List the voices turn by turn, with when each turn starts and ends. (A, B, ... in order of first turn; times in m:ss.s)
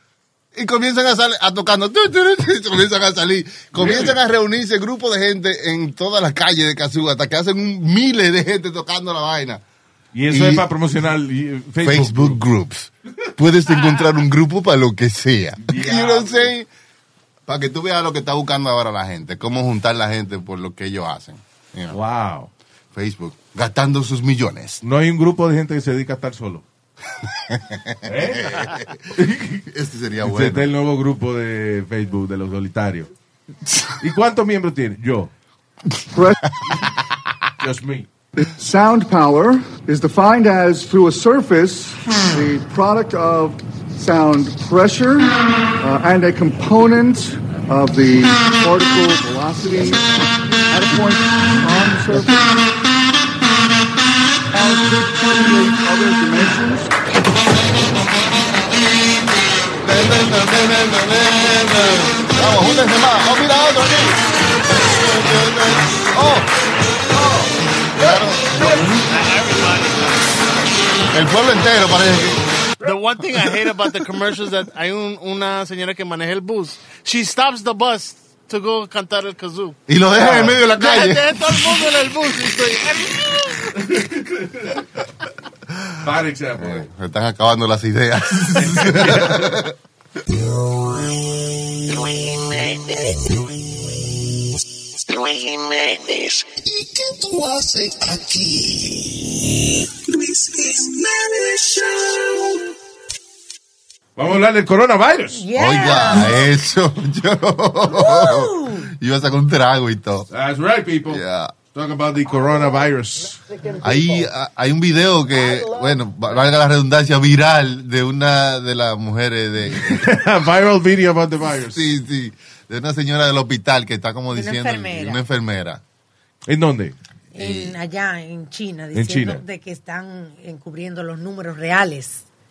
0:00.6-0:09.6 A
0:03.7-0:04.2 B
0:10.1-0:12.4 B
0:10.3-0:10.7 A
0:11.8-0:16.7 A
0:15.6-0:16.5 B
0:17.5-0:22.0 A
0:21.9-0:22.5 B
0:22.9-0:24.8 A
0:24.8-0:26.6 B
0:27.5-0:29.0 A
0:28.1-0:29.6 B
0:29.7-0:30.7 A
0:30.2-0:33.1 B
0:34.0-0:35.3 B
0:37.6-0:38.1 B
0:38.4-0:52.6 C
0:54.5-0:56.9 C
0:59.8-1:06.5 A
1:07.2-1:07.5 B
1:07.9-1:09.0 A
1:08.0-1:09.0 B
1:08.6-1:11.2 D
1:11.1-1:12.4 A
1:12.8-1:23.7 D
1:19.9-1:21.9 A
1:23.7-1:24.8 B
1:26.0-1:26.9 B
1:26.6-1:29.7 A
1:28.6-1:29.5 B
1:30.3-1:30.7 E
1:31.9-1:33.5 E
1:35.1-1:39.4 E
1:40.1-1:42.5 E
1:44.2-1:45.5 B
1:45.3-1:46.4 F
1:45.5-1:50.3 A
1:46.0-1:46.3 B
1:47.9-1:48.9 F
1:50.3-1:53.4 B
1:51.1-1:51.6 A
1:53.8-2:00.1 A
1:59.7-2:01.8 B
2:01.7-2:05.8 A
2:04.3-2:05.2 F
2:06.5-2:07.0 B
2:07.3-2:12.2 F
2:07.4-2:07.8 A
2:08.9-2:09.4 B